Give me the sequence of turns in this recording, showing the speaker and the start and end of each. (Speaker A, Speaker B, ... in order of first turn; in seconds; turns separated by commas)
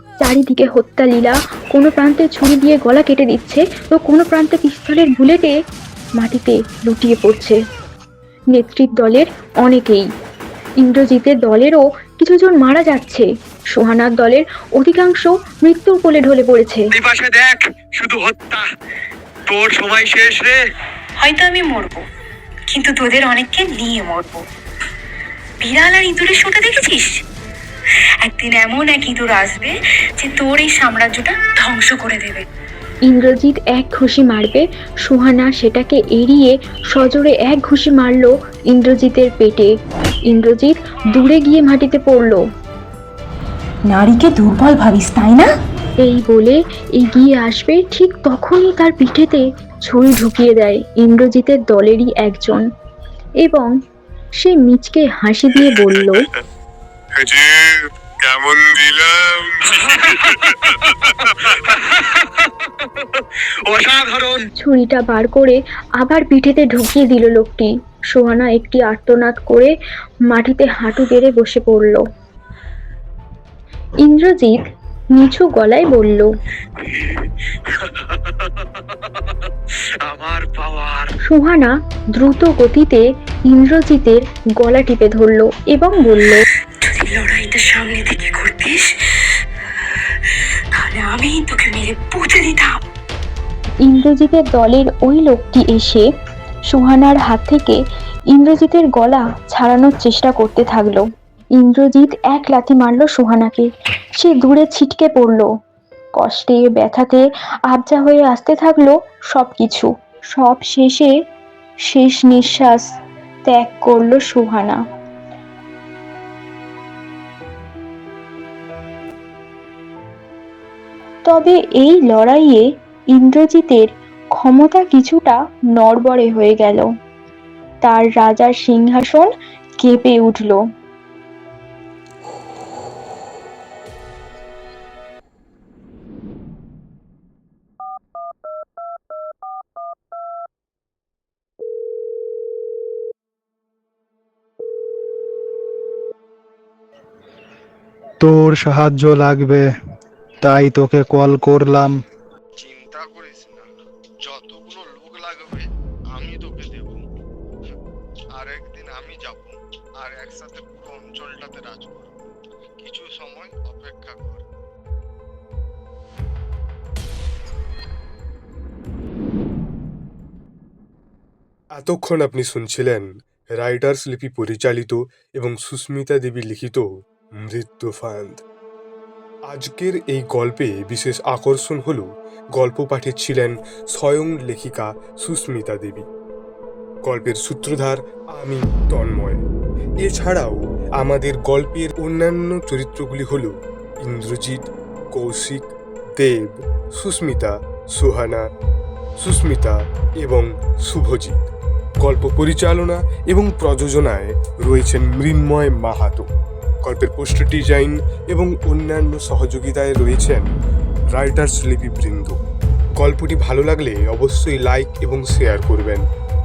Speaker A: 0.2-5.5, Speaker A: 6.2-7.6, Speaker A: 8.5-10.1, Speaker A: 10.8-16.9, Speaker B: 17.0-18.6, Speaker B: 19.5-20.6, Speaker C: 21.2-22.1, Speaker C: 22.7-24.4, Speaker C: 25.6-27.1, Speaker C: 28.2-32.5, Speaker A: 33.1-39.7, Speaker A: 40.3-42.4, Speaker C: 43.9-45.5, Speaker A: 46.0-52.6, Speaker A: 53.4-53.7, Speaker A: 54.4-56.2, Speaker B: 59.7-64.4, Speaker A: 64.6-69.7, Speaker A: 70.3-72.0, Speaker A: 74.0-74.6, Speaker A: 75.1-76.3, Speaker B: 76.8-81.1, Speaker A: 81.3-86.4, Speaker C: 86.8-88.9, Speaker C: 90.7-92.8, Speaker A: 93.8-96.1, Speaker A: 96.7-97.8, Speaker A: 98.3-101.0, Speaker A: 101.6-105.5, Speaker A: 106.2-111.1, Speaker A: 111.9-112.8, Speaker A: 113.5-114.8, Speaker A: 121.3-126.9, Speaker A: 127.8-129.3, Speaker A: 129.8-130.6, Speaker D: 148.2-149.7, Speaker D: 150.4-152.0, Speaker E: 152.6-153.7, Speaker E: 154.2-157.1, Speaker E: 158.4-162.2, Speaker E: 162.8-164.4, Speaker F: 171.8-176.8, Speaker F: 177.5-178.4, Speaker F: 179.5-186.1, Speaker F: 187.1-189.4, Speaker F: 190.0-193.5, Speaker F: 194.0-198.4, Speaker F: 199.2-201.4, Speaker F: 202.0-206.3, Speaker F: 206.8-210.5, Speaker F: 211.2-212.3, Speaker F: 213.0-216.1